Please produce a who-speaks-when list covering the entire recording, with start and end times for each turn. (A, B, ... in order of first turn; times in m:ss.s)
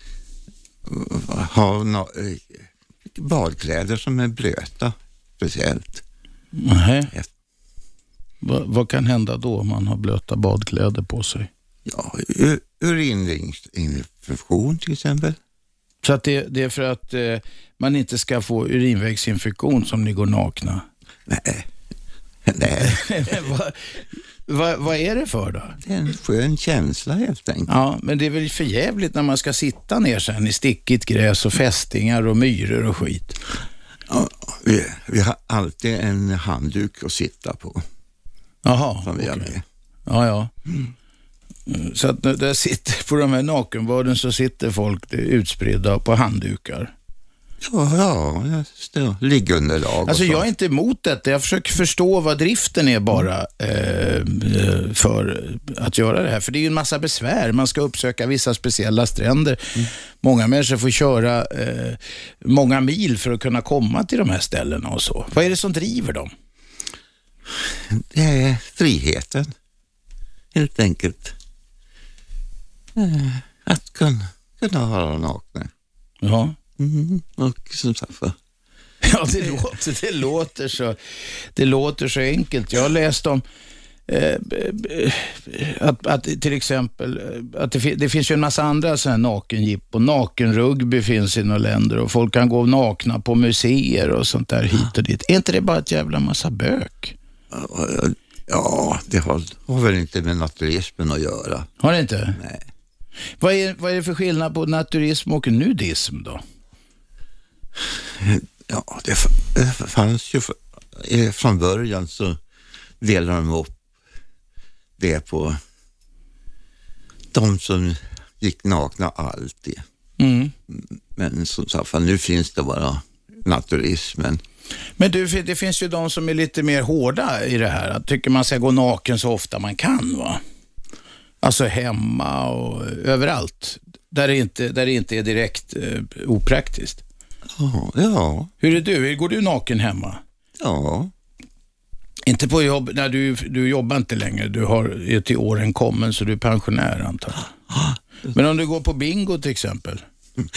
0:00.8-0:06.0 A
0:06.6-0:07.1 B
0:08.4-0:11.5 B
0:11.9-0:15.4 A
0:16.0-0:20.8 B
0:21.3-0:21.7 A
0:22.4-0:23.4 A
0:22.8-0:23.8 B
0:24.5-0:25.8 B
0:25.8-0:27.7 A
0:27.7-0:33.4 B
0:34.1-0:37.8 A
0:38.6-0:39.5 B
0:39.0-0:39.6 A
0:40.1-0:40.5 B
0:41.7-0:46.9 B
0:47.6-0:50.4 A
0:50.1-0:59.7 B
1:00.2-1:06.3 B
1:07.6-1:09.5 A
1:10.5-1:11.4 A
1:13.0-1:15.7 A
1:16.2-1:16.6 B
1:16.8-1:18.4 A
1:19.0-1:21.0 B
1:21.6-1:23.4 B
1:24.1-1:37.2 B
1:37.5-1:41.7 A
1:41.8-1:42.4 B
1:42.4-1:42.6 A
1:43.4-1:46.4 B
1:47.9-1:52.4 A
1:53.0-1:53.8 A
1:55.0-1:55.6 A
1:57.3-1:59.8 A
2:00.2-2:00.5 B
2:00.7-2:04.4 A
2:05.0-2:10.4 B
2:11.4-2:17.0 B
2:17.5-2:18.5 A
2:18.6-2:20.2 B
2:20.6-2:21.1 A
2:22.3-2:27.5 B
2:27.7-2:28.0 A
2:28.3-2:30.0 B